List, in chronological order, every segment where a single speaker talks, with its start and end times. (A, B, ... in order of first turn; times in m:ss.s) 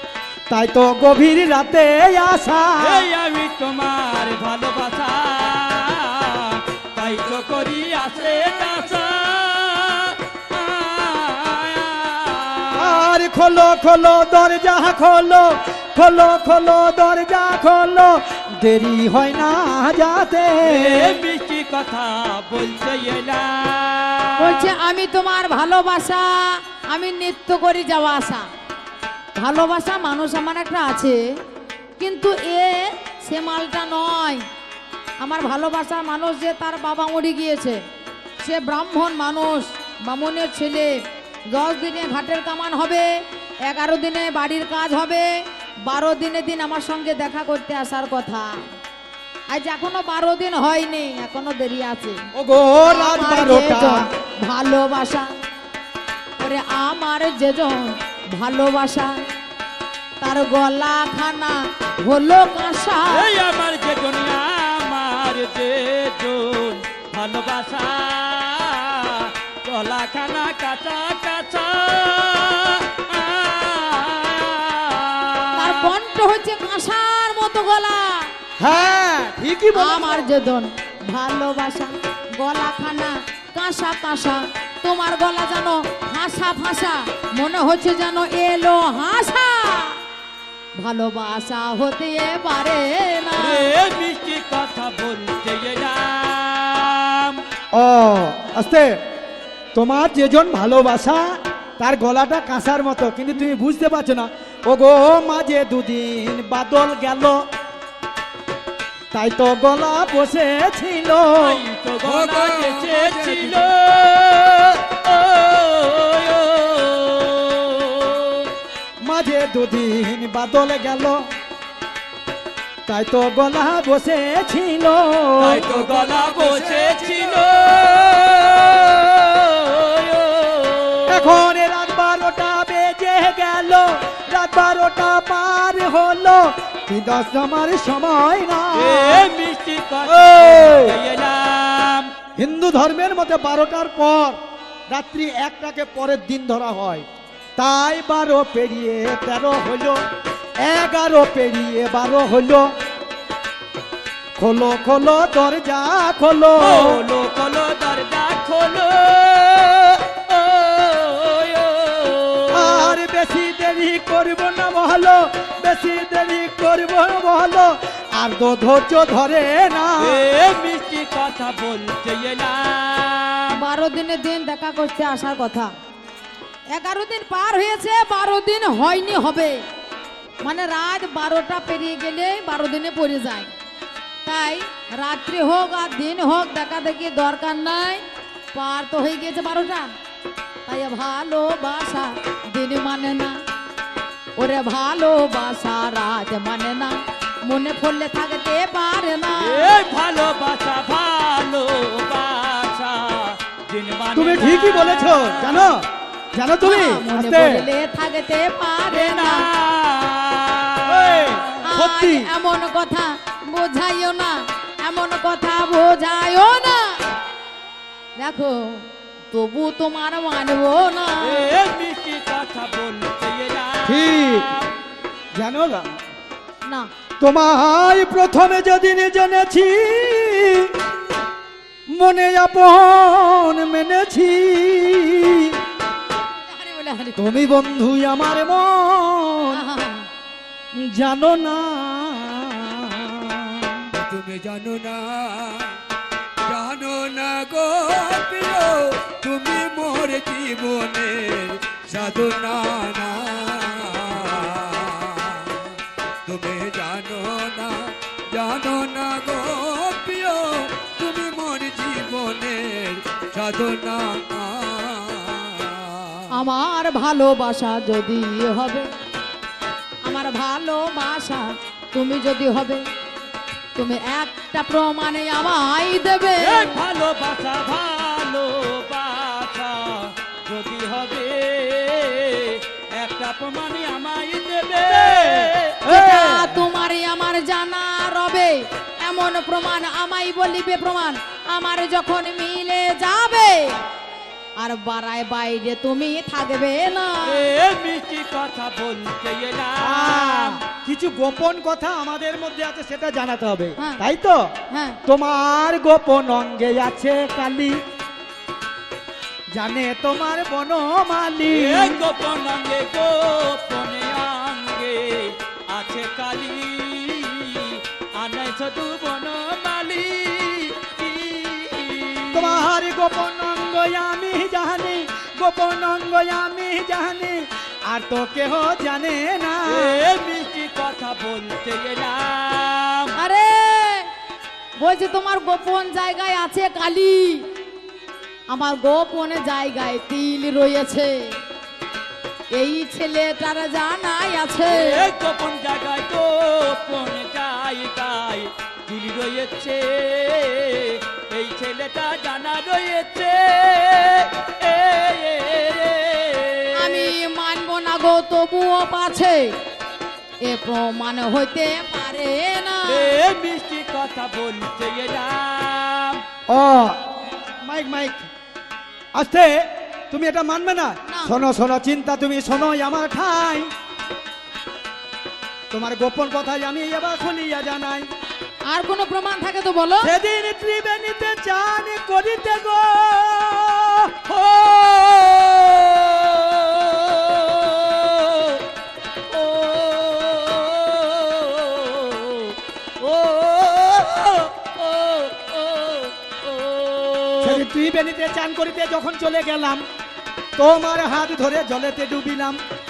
0:00.5-0:03.0 A
0:02.8-0:13.0 B
0:12.8-0:21.1 A
0:20.6-0:24.7 B
0:24.4-0:28.4 C
0:29.3-0:31.2 C
0:32.0-0:34.4 C
0:35.2-0:37.8 C
0:38.4-0:40.9 C
0:41.5-0:43.1 C
0:43.7-0:45.3 C
0:45.9-0:48.5 C
0:49.5-0:52.2 C
0:52.3-0:54.0 A
0:52.8-0:55.3 C
0:56.4-0:59.1 C
1:00.2-1:03.3 C
1:03.1-1:15.9 B
1:15.6-1:18.3 C
1:18.6-1:20.3 A
1:19.7-1:30.0 C
1:30.8-1:33.7 C
1:33.4-1:37.4 B
1:37.7-1:38.9 A
1:39.7-1:41.3 A
1:41.8-1:47.4 A
1:49.1-1:51.6 A
1:51.4-1:58.5 B
1:52.0-1:53.7 D
1:59.0-2:01.2 A
2:02.9-2:05.6 A
2:05.4-2:11.4 B
2:05.6-2:07.6 D
2:11.1-2:19.3 A
2:18.7-2:22.1 B
2:20.1-2:21.0 A
2:22.4-2:24.4 A
2:24.9-2:27.0 A
2:27.6-2:30.0 A
2:30.6-2:32.7 A
2:34.4-2:37.0 A
2:36.6-2:43.0 B
2:42.5-2:50.2 A
2:50.0-2:53.6 B
2:53.5-2:55.7 C
2:56.7-2:59.6 C
3:00.4-3:03.5 C
3:04.2-3:08.0 C
3:08.5-3:09.9 C
3:10.7-3:13.4 C
3:14.4-3:19.7 C
3:19.4-3:25.6 B
3:24.1-3:27.6 A
3:26.6-3:29.5 C
3:28.9-3:31.6 B
3:30.9-3:32.3 A
3:31.6-3:37.1 C
3:38.2-3:41.5 C
3:41.2-3:44.7 B
3:43.8-3:44.5 A
3:45.3-3:45.9 A
3:46.6-3:46.9 C
3:47.2-3:50.7 A
3:51.9-3:55.5 A
3:56.3-3:57.2 C
3:57.2-3:59.6 A
3:59.5-4:00.1 C
4:00.8-4:03.7 A
4:03.9-4:05.8 D
4:06.4-4:26.3 D
4:26.3-4:28.9 C
4:30.0-4:32.8 C
4:33.7-4:36.8 C
4:36.4-4:45.8 B
4:44.9-4:46.5 A
4:45.8-4:53.8 C
4:54.6-4:57.4 C
4:57.2-5:00.6 B
4:59.8-5:04.5 A
5:04.7-5:05.0 C
5:05.0-5:07.8 A
5:09.5-5:12.0 A
5:11.5-5:22.6 B
5:22.3-5:30.0 A
5:29.7-5:33.2 B
5:33.2-5:34.1 C
5:34.8-5:37.5 C
5:38.5-5:41.1 C
5:42.5-5:45.0 C
5:44.7-5:57.1 B
5:56.8-5:59.5 C
6:00.4-6:03.1 C
6:02.9-6:06.2 B
6:06.5-6:07.0 A
6:07.6-6:08.3 A
6:09.1-6:13.7 A
6:11.1-6:11.4 C
6:15.7-6:18.1 A
6:18.6-6:20.1 C
6:20.0-6:24.3 A
6:24.3-6:28.6 B
6:29.3-6:37.6 B
6:37.4-6:39.8 A
6:40.6-6:42.6 A